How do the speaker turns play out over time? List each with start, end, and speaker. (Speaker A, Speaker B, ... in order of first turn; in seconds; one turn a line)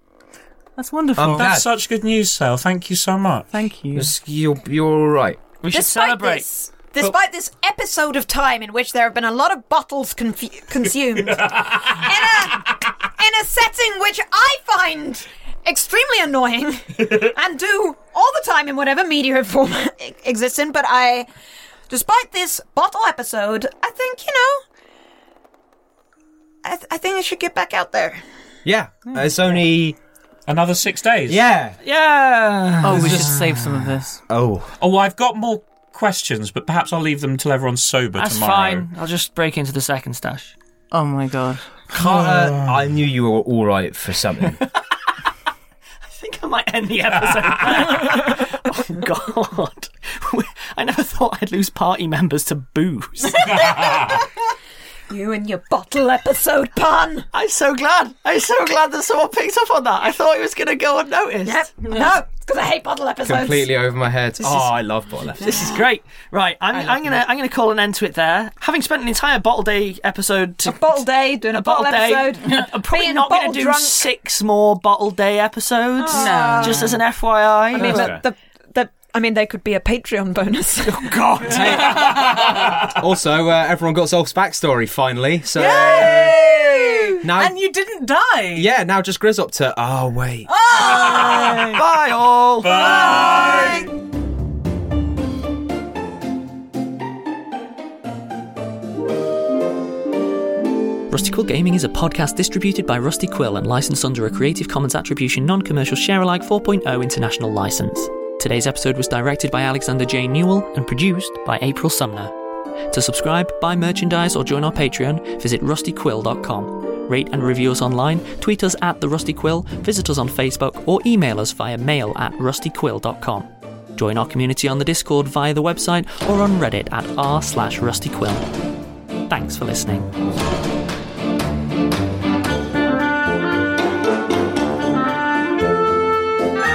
Speaker A: 0.8-1.5
Speaker B: 1.1-1.7
Speaker C: 1.3-3.5
Speaker A: 3.5-4.1
Speaker B: 3.9-5.4
Speaker D: 5.6-6.5
Speaker E: 5.7-21.3
Speaker C: 11.3-12.0
Speaker E: 21.9-24.6
Speaker E: 26.6-28.2
Speaker B: 28.6-30.0
Speaker C: 30.5-31.4
Speaker B: 31.3-31.8
Speaker D: 31.8-33.2
Speaker A: 32.8-34.2
Speaker B: 32.9-33.5
Speaker B: 34.3-34.7
Speaker C: 34.8-38.9
Speaker D: 38.1-40.5
Speaker A: 40.9-41.6
Speaker B: 41.9-44.6
Speaker C: 42.1-42.7
Speaker D: 46.1-53.5
Speaker C: 53.4-54.2
Speaker E: 53.6-54.1
Speaker E: 55.1-57.3
Speaker D: 57.3-61.7
Speaker E: 61.4-63.7
Speaker B: 63.2-65.7
Speaker D: 65.4-78.1
Speaker A: 66.7-67.2
Speaker E: 70.6-74.0
Speaker E: 76.0-76.9
Speaker A: 76.0-77.0
Speaker E: 77.7-81.5
Speaker B: 77.8-78.2
Speaker D: 80.9-82.2
Speaker B: 81.5-86.4
Speaker C: 82.5-82.9
Speaker A: 85.5-88.7
Speaker B: 87.2-87.6
Speaker B: 88.5-90.5
Speaker A: 90.5-91.8
Speaker D: 90.8-93.2
Speaker C: 90.8-91.8
Speaker C: 92.6-93.9
Speaker A: 92.8-93.8
Speaker D: 101.1-112.3
Speaker D: 112.9-128.5
Speaker D: 129.3-130.1